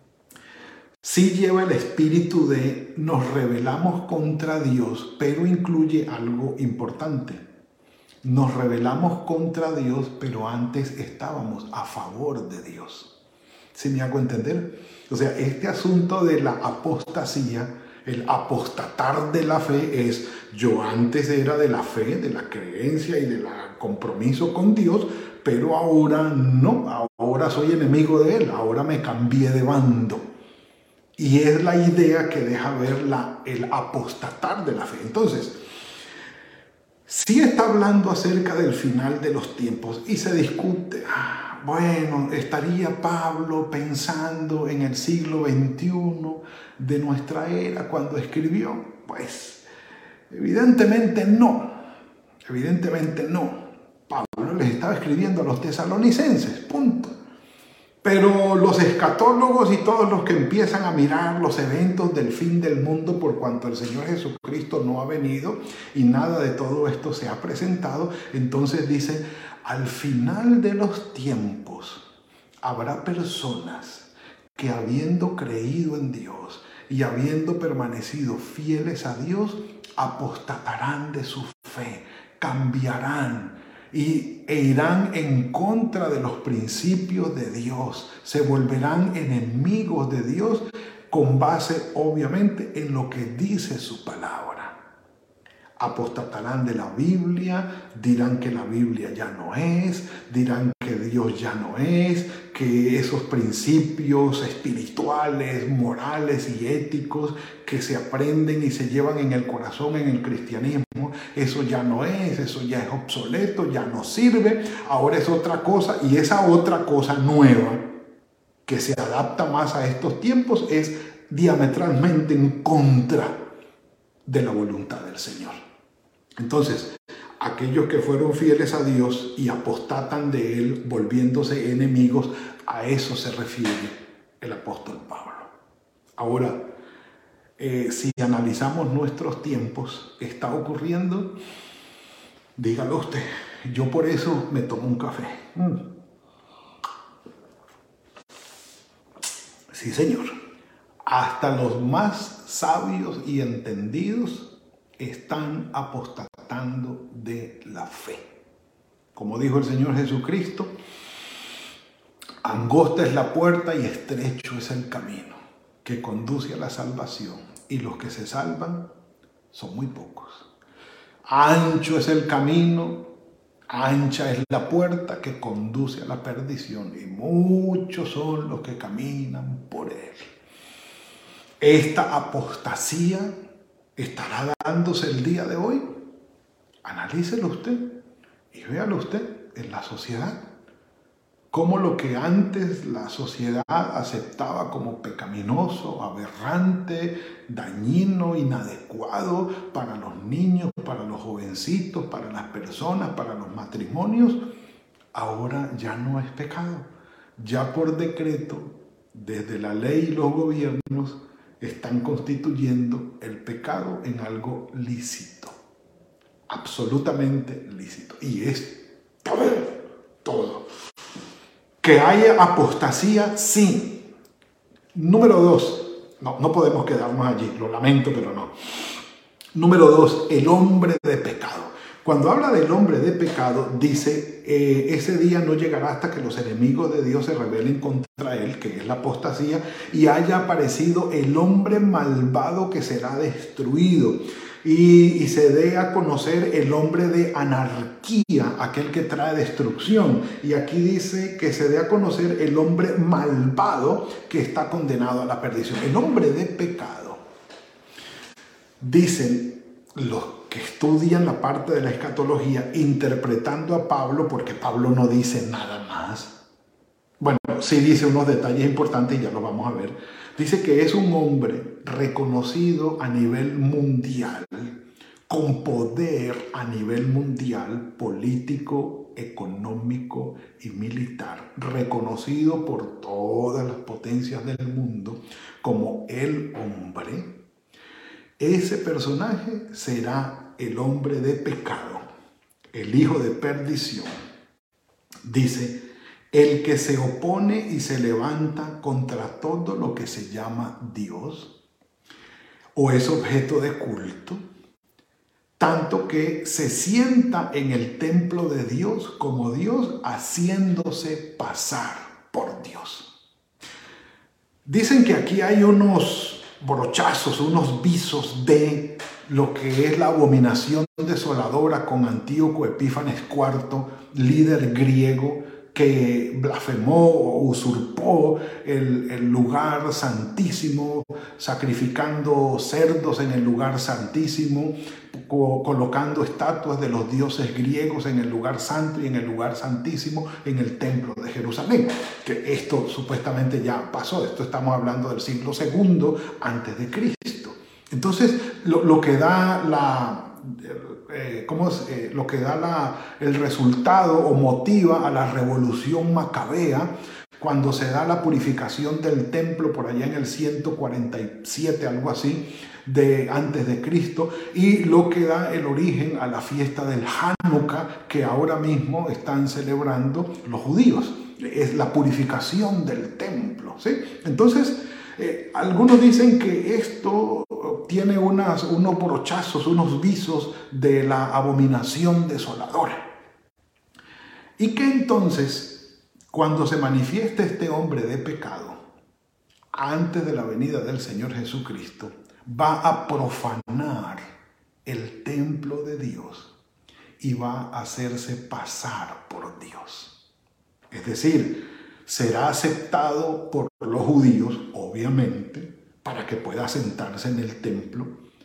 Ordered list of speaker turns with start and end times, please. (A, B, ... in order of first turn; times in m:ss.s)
0:01.0-0:07.4 A
0:08.2-0:13.1 A
0:13.8-0:30.3 A
0:31.2-0:35.6 A
0:37.1-0:49.6 A
0:50.3-0:51.7 A
0:52.5-0:57.1 A
0:58.0-1:12.0 A
1:12.6-1:34.8 A
1:35.8-1:57.8 A
1:58.7-2:03.4 A
2:04.3-2:05.6 A
2:06.4-2:15.5 A
2:16.2-2:16.6 A
2:17.6-2:21.3 A
2:22.6-2:25.8 A
2:29.7-2:30.4 A
2:31.1-2:38.3 A
2:39.2-2:40.7 A
2:42.4-2:48.9 A
2:49.5-2:50.5 A
2:51.3-2:53.0 A
2:53.7-3:00.3 A
3:01.6-3:03.3 A
3:04.0-3:05.8 A
3:06.8-3:07.8 A
3:08.5-3:10.4 A
3:11.5-3:24.4 A
3:25.2-3:35.6 A
3:36.5-3:40.7 A
3:41.8-3:44.0 A
3:44.9-3:48.5 A
3:49.6-4:17.2 A
4:18.8-4:26.3 A
4:27.2-4:34.8 A
4:35.3-4:47.3 A
4:48.4-4:52.0 A
4:52.7-4:54.1 A
4:55.2-4:55.8 A
4:56.3-5:01.5 A
5:02.8-5:04.4 A
5:05.6-5:13.1 A
5:14.7-6:23.0 A
6:24.6-6:28.8 A
6:29.7-6:34.2 A
6:34.9-6:36.5 A
6:37.2-6:40.1 A
6:40.9-6:48.1 A